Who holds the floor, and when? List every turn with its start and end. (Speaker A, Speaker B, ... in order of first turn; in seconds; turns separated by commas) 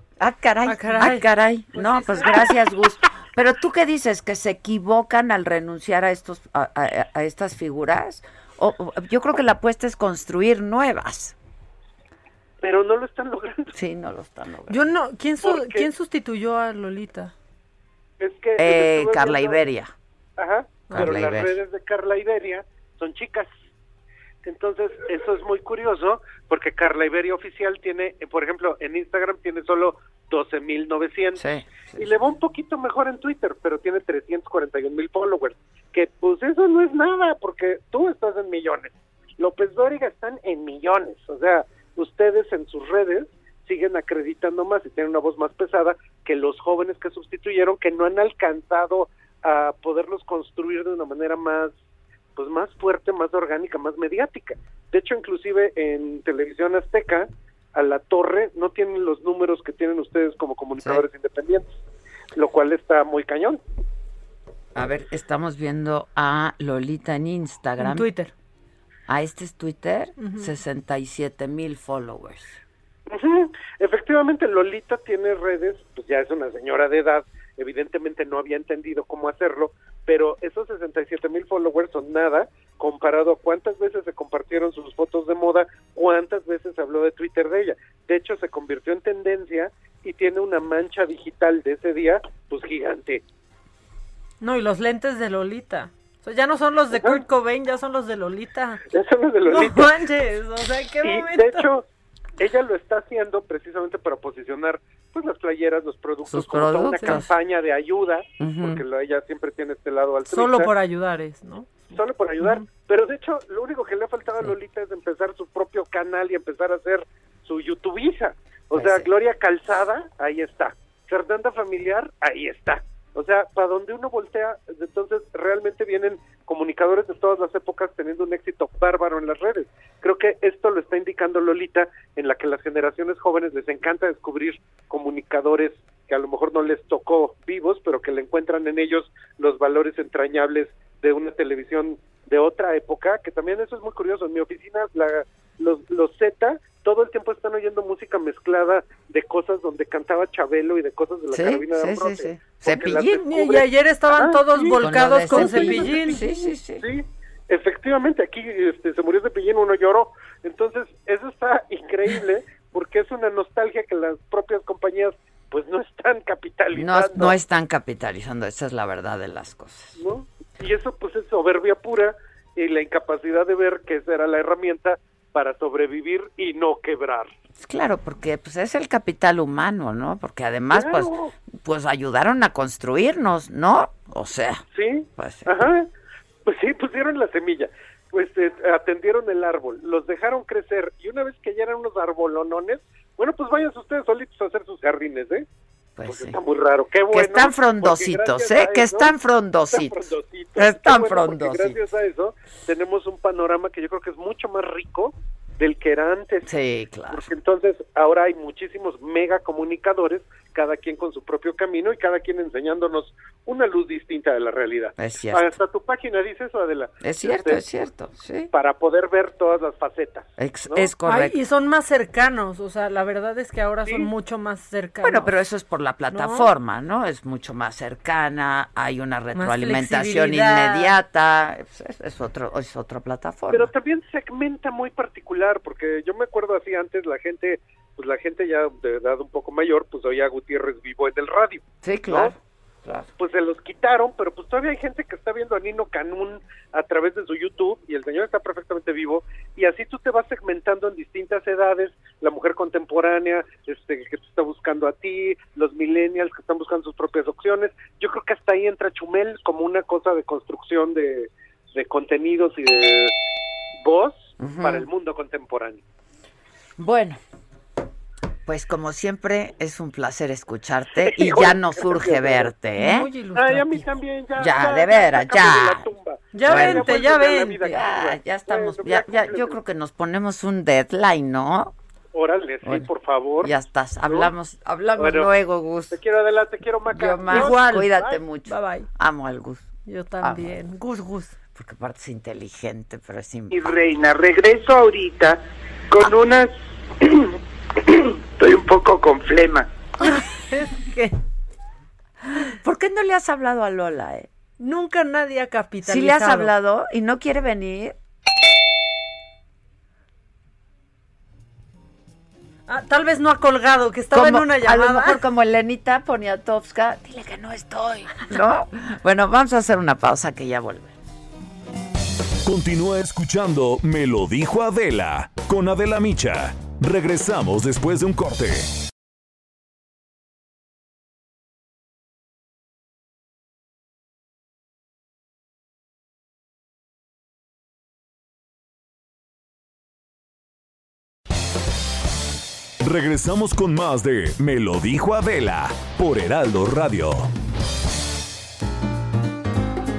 Speaker A: 0.2-11.3, Speaker B: 0.6-2.6, Speaker C: 12.6-13.7, Speaker A: 13.7-14.9, Speaker B: 14.7-17.3, Speaker C: 15.4-15.8, Speaker C: 18.2-19.6, Speaker A: 18.6-19.9, Speaker C: 20.4-23.5, Speaker B: 20.9-21.2, Speaker A: 20.9-21.6, Speaker C: 24.4-31.4, Speaker A: 31.4-32.1, Speaker C: 31.9-51.7, Speaker C: 52.4-61.7, Speaker A: 60.8-61.0, Speaker C: 62.4-63.6, Speaker A: 64.7-68.1, Speaker B: 67.8-68.3, Speaker A: 69.1-72.6, Speaker B: 70.2-70.5, Speaker C: 73.1-93.2, Speaker B: 94.4-98.8, Speaker C: 98.9-99.9, Speaker B: 99.5-101.7, Speaker C: 101.0-101.8, Speaker C: 102.4-110.7, Speaker A: 106.2-107.3, Speaker B: 107.0-107.2, Speaker A: 108.4-108.8, Speaker B: 110.3-112.7, Speaker C: 111.9-153.6, Speaker A: 118.7-119.1, Speaker A: 151.3-153.6, Speaker B: 153.2-156.2, Speaker C: 154.1-167.4, Speaker A: 154.8-156.8, Speaker A: 166.7-170.0, Speaker C: 170.0-177.3, Speaker A: 177.6-184.6, Speaker C: 180.7-181.3, Speaker C: 184.7-185.9, Speaker A: 185.2-185.5, Speaker C: 186.4-195.4, Speaker A: 195.9-196.4, Speaker C: 196.0-199.1, Speaker A: 197.1-201.8, Speaker C: 199.7-206.5, Speaker A: 206.4-207.2, Speaker C: 207.1-217.6, Speaker A: 215.0-215.5, Speaker A: 217.0-218.5, Speaker C: 218.5-220.9, Speaker A: 220.4-221.4, Speaker B: 221.0-225.3, Speaker A: 225.0-233.7, Speaker B: 226.1-226.5, Speaker B: 229.3-230.9, Speaker C: 233.5-242.3, Speaker A: 241.8-243.1, Speaker C: 243.2-263.1, Speaker C: 263.8-265.8, Speaker A: 264.4-264.9, Speaker A: 266.8-267.2, Speaker A: 268.4-273.1, Speaker C: 271.0-272.5, Speaker B: 272.7-273.9, Speaker C: 273.4-279.6, Speaker A: 274.4-275.9, Speaker B: 276.3-277.6, Speaker A: 276.4-281.7, Speaker C: 282.1-283.5, Speaker A: 282.6-282.9, Speaker A: 283.4-286.0, Speaker C: 284.0-284.3, Speaker C: 285.0-285.3, Speaker C: 285.9-288.2, Speaker A: 286.9-290.6, Speaker B: 287.3-287.9, Speaker B: 288.4-288.9, Speaker B: 289.9-291.4, Speaker A: 291.5-293.7, Speaker D: 293.5-295.4, Speaker D: 295.9-296.5, Speaker D: 297.9-299.7, Speaker B: 300.0-301.1, Speaker A: 302.4-304.3, Speaker B: 304.6-306.5, Speaker A: 305.8-308.0, Speaker B: 312.7-315.2, Speaker A: 314.1-320.9, Speaker E: 322.4-328.6, Speaker E: 342.8-347.3